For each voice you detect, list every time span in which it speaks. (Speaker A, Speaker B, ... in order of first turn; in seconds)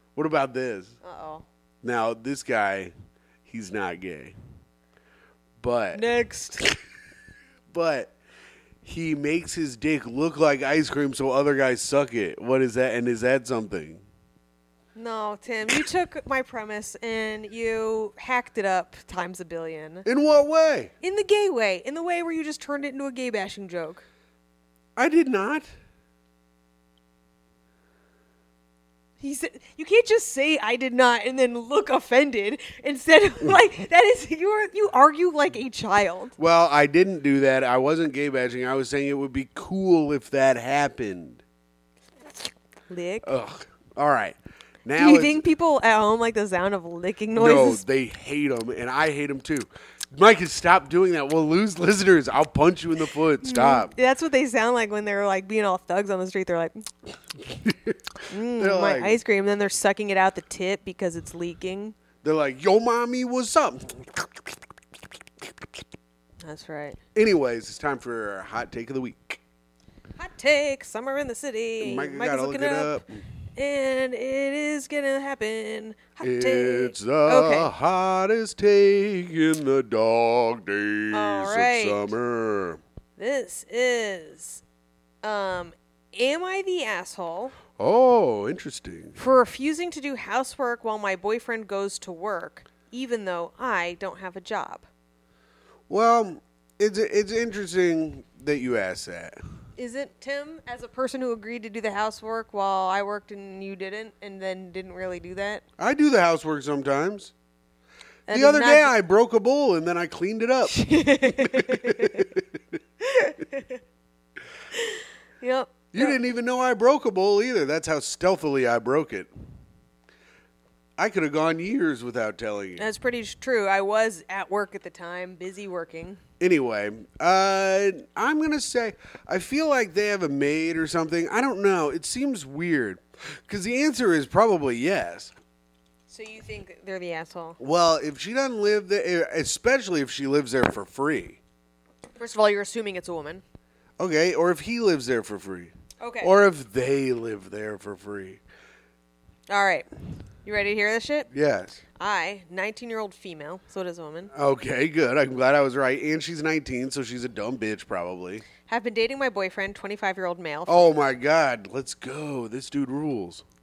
Speaker A: 0.1-0.9, 1.8-2.9, 3.5-4.3, 5.6-6.0, 7.7-8.1, 8.8-14.0, 20.0-20.9, 24.9-25.7, 36.4-41.4, 43.2-45.4, 47.3-53.9, 57.4-58.0, 58.5-59.2, 62.2-64.6, 67.1-69.4, 71.8-73.2, 76.2-82.8, 87.8-89.2, 95.9-99.3, 105.8-107.3, 108.3-112.8, 115.9-119.3, 121.0-122.8, 126.4-135.3, 137.6-141.4, 144.0-148.4, 151.3-151.8, 154.3-158.4, 160.7-163.4
Speaker B: 1.0-1.4, 5.9-6.7, 14.9-20.1, 21.0-24.0, 29.2-36.3, 42.9-43.3, 45.0-47.8, 53.4-56.9, 58.3-62.0, 66.4-67.0, 70.2-73.0, 73.5-77.7, 81.1-82.1, 83.2-84.6, 85.2-87.5, 89.2-94.9, 99.8-105.6, 108.3-108.9, 110.7-112.3, 113.0-113.8, 114.7-116.2, 122.8-126.2, 136.1-137.6, 142.2-143.4, 146.0-146.3, 149.5-149.8, 150.4-151.3, 152.0-154.3, 158.7-160.9